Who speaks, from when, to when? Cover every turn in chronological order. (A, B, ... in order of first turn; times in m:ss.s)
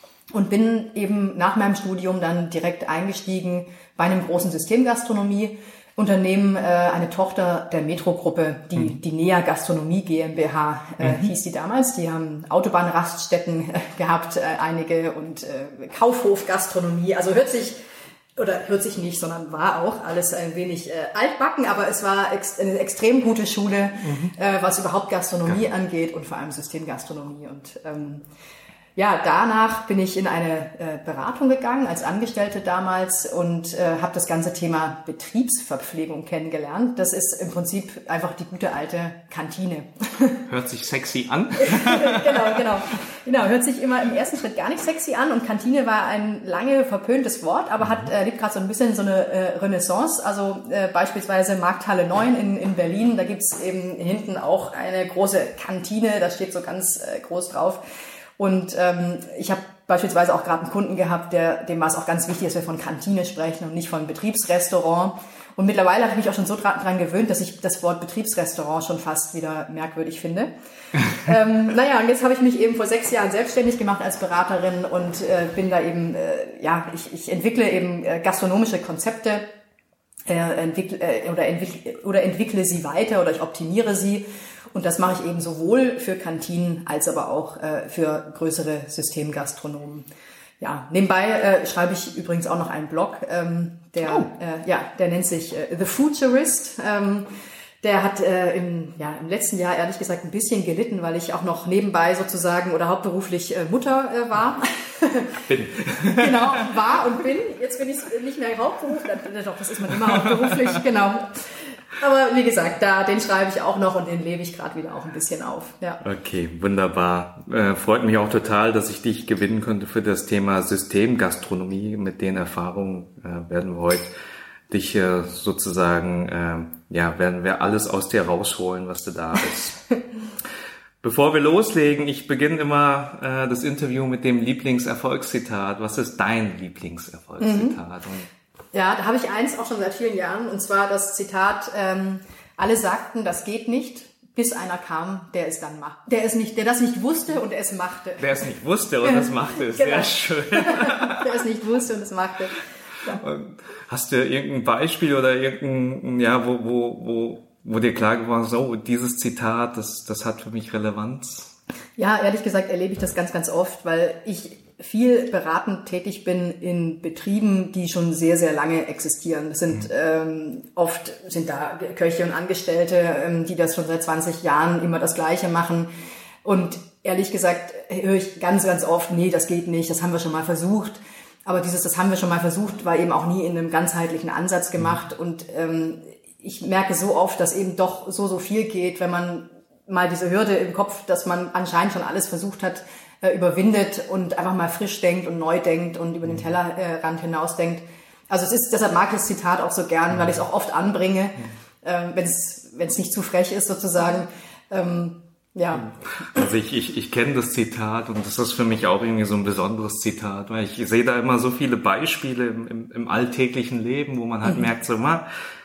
0:00.3-0:17.8 A
0:18.4-0:28.2 A
0:24.0-0:24.3 B
0:29.0-0:40.4 A
0:40.5-0:42.7 B
0:41.6-0:57.8 A
0:58.4-1:10.5 A
1:11.1-1:19.5 A
1:20.3-1:30.0 A
1:30.6-1:37.3 A
1:37.8-1:45.4 A
1:45.5-1:46.7 B
1:46.0-1:56.0 A
1:50.1-1:50.7 B
1:56.0-2:04.1 B
2:04.7-2:09.8 B
2:11.0-2:18.3 B
2:17.4-2:17.8 A
2:18.7-2:28.5 A
2:28.2-2:31.3 B
2:29.0-2:33.2 A
2:33.1-2:41.6 B
2:42.0-2:55.9 A
2:56.4-3:26.4 A
3:25.8-3:35.3 B